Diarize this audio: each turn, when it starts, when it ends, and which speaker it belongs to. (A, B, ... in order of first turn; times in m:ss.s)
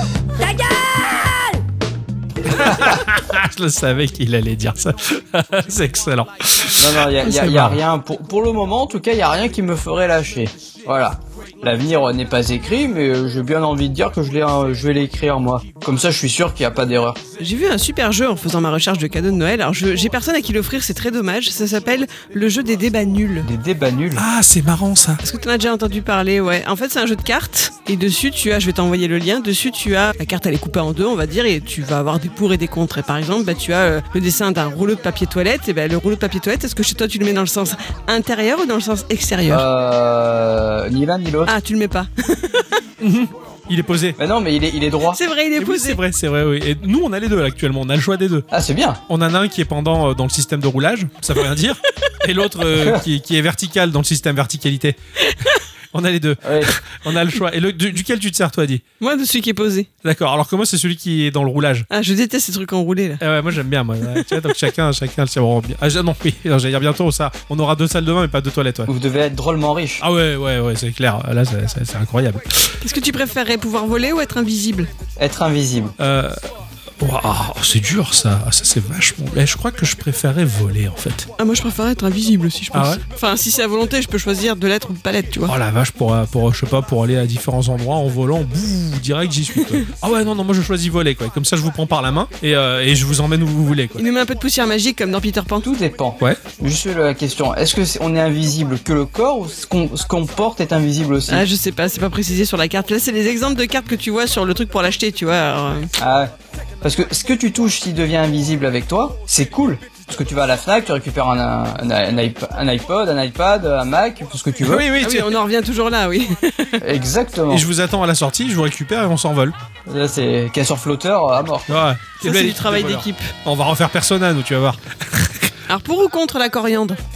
0:02.5-0:07.8 A
0:06.8-0:17.2 B
0:17.4-0:23.5 C
0:23.4-0:24.2 B
0:24.2-0:25.2 A
0:25.2-0:39.6 C
0:39.5-0:41.5 B
0:41.5-0:42.7 C
0:43.0-0:44.2 A
0:44.2-0:45.2 B
0:45.1-0:46.0 C
0:45.6-0:48.5 A
0:48.5-0:49.0 B
0:49.1-0:55.0 A
0:55.3-0:55.6 C
0:55.9-0:58.8 A
0:56.4-0:56.8 B
0:59.0-0:59.9 C
1:00.0-1:01.9 A
1:01.9-1:03.2 C
1:03.2-1:08.9 A
1:08.9-1:10.0 B
1:10.0-1:12.7 A
1:12.8-1:14.9 C
1:15.2-1:15.9 B
1:16.0-1:16.4 A
1:17.0-1:21.3 A
1:21.4-1:25.5 C
1:22.7-1:23.0 A
1:25.5-1:34.0 A
1:29.6-1:29.9 C
1:34.0-1:35.7 C
1:35.6-1:41.5 B
1:41.3-1:45.9 C
1:46.0-1:54.8 B
1:54.6-1:55.3 A
1:55.0-1:56.8 C
1:56.8-1:57.7 B
1:57.5-1:59.6 A
1:59.9-2:01.8 B
2:01.7-2:05.5 A
2:02.2-2:03.3 C
2:05.7-2:07.0 C